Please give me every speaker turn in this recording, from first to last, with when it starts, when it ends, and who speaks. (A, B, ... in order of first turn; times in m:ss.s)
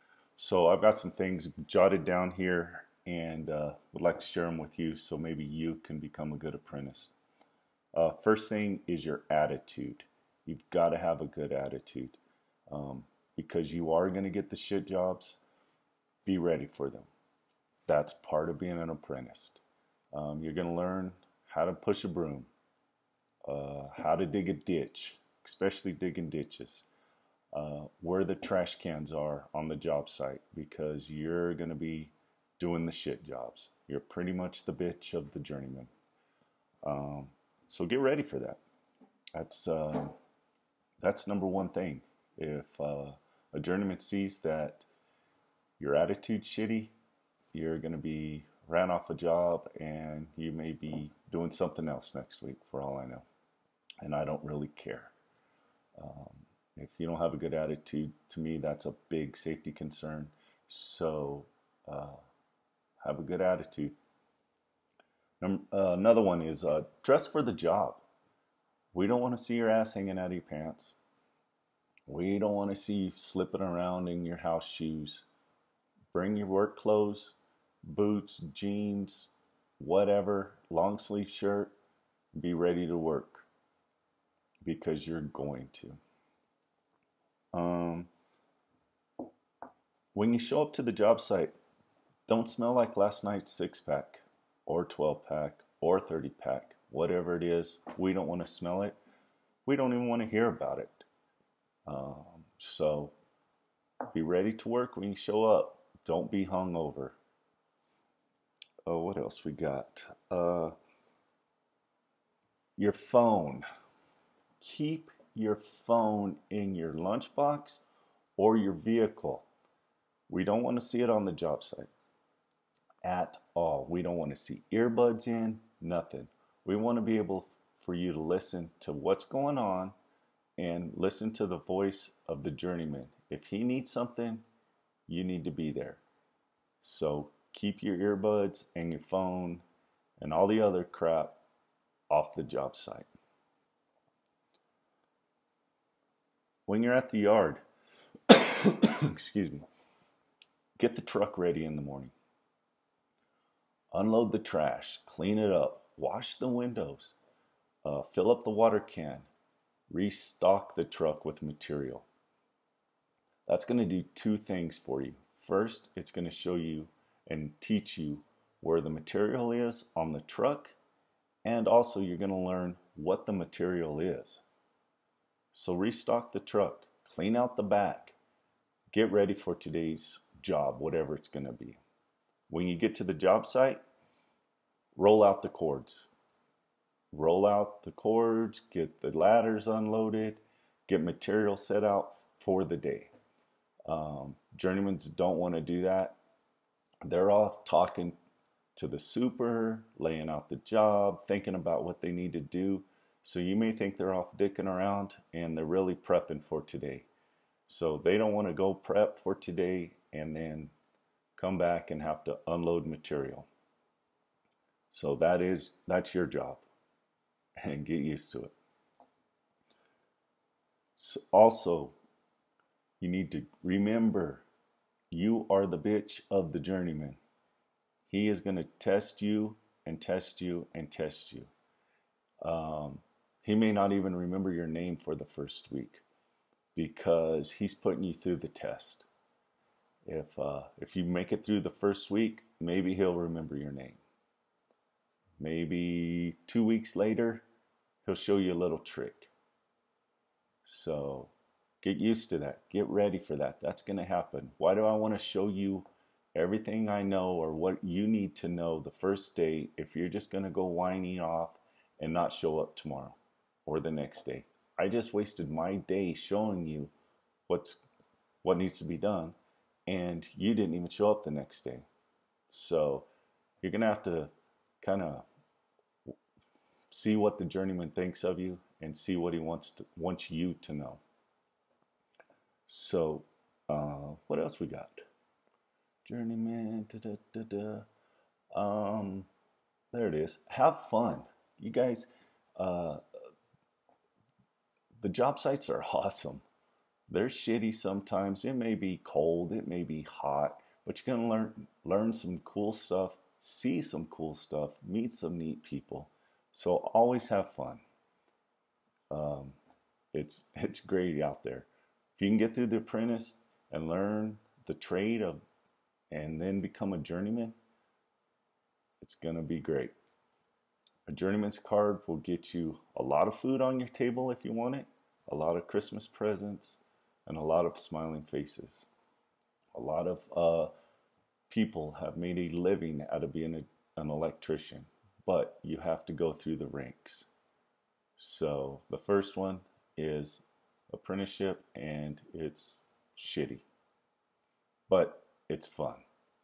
0:00.4-0:07.1 A
0:07.9-0:15.4 A
0:16.2-0:17.1 A
0:17.9-0:19.6 A
0:20.1-0:22.5 A
0:23.5-0:26.9 A
0:27.5-0:35.9 A
0:36.8-0:38.6 A
0:39.4-0:40.2 A
0:41.0-0:44.9 A
0:45.8-0:46.9 A
0:47.5-0:53.3 A
0:54.0-0:55.1 A
0:56.0-1:02.2 A
1:03.0-1:04.0 A
1:05.4-1:08.0 A
1:08.9-1:11.0 A
1:12.1-1:15.3 A
1:16.1-1:21.7 A
1:22.3-1:23.5 A
1:24.6-1:26.0 A
1:27.5-1:28.1 A
1:30.1-1:31.6 A
1:32.3-1:39.0 A
1:39.6-1:41.1 A
1:41.9-1:43.1 A
1:44.1-1:47.2 A
1:48.8-1:50.7 A
1:52.8-1:53.7 A
1:54.6-1:57.8 A
1:58.4-1:59.5 A
2:00.3-2:01.9 A
2:03.0-2:09.9 A
2:10.6-2:14.4 A
2:15.1-2:16.0 A
2:16.8-2:19.6 A
2:20.2-2:21.4 A
2:22.1-2:23.1 A
2:26.7-2:27.6 A
2:28.3-2:29.7 A
2:30.8-2:32.1 A
2:33.9-2:37.2 A
2:37.8-2:39.3 A
2:39.9-2:42.1 A
2:43.5-2:50.8 A
2:51.4-2:54.4 A
2:55.5-2:58.2 A
2:58.9-3:01.8 A
3:02.5-3:03.8 A
3:05.0-3:06.1 A
3:07.1-3:13.1 A
3:13.9-3:16.2 A
3:17.0-3:18.2 A
3:18.8-3:27.1 A
3:27.7-3:30.7 A
3:31.4-3:33.5 A
3:34.9-3:36.6 A
3:37.6-3:38.6 A
3:41.0-3:42.0 A
3:43.0-3:44.4 A
3:45.1-3:47.2 A
3:48.1-3:51.5 A
3:52.4-3:56.0 A
3:56.8-3:59.1 A
4:00.0-4:04.0 A
4:05.4-4:07.4 A
4:08.0-4:09.3 A
4:10.6-4:26.9 A
4:27.5-4:27.8 A
4:28.4-4:29.4 A
4:29.9-4:31.9 A
4:32.5-4:33.1 A
4:33.6-4:35.3 A
4:36.9-4:41.0 A
4:42.7-4:45.0 A
4:46.0-4:47.9 A
4:48.5-4:49.3 A
4:49.9-4:53.0 A
4:55.0-4:56.4 A
4:57.1-5:07.8 A
5:09.1-5:09.6 A
5:10.1-5:15.4 A
5:16.1-5:17.6 A
5:19.0-5:20.0 A
5:21.1-5:28.9 A
5:29.7-5:30.7 A
5:31.5-5:37.3 A
5:38.2-5:43.7 A
5:44.9-5:46.0 A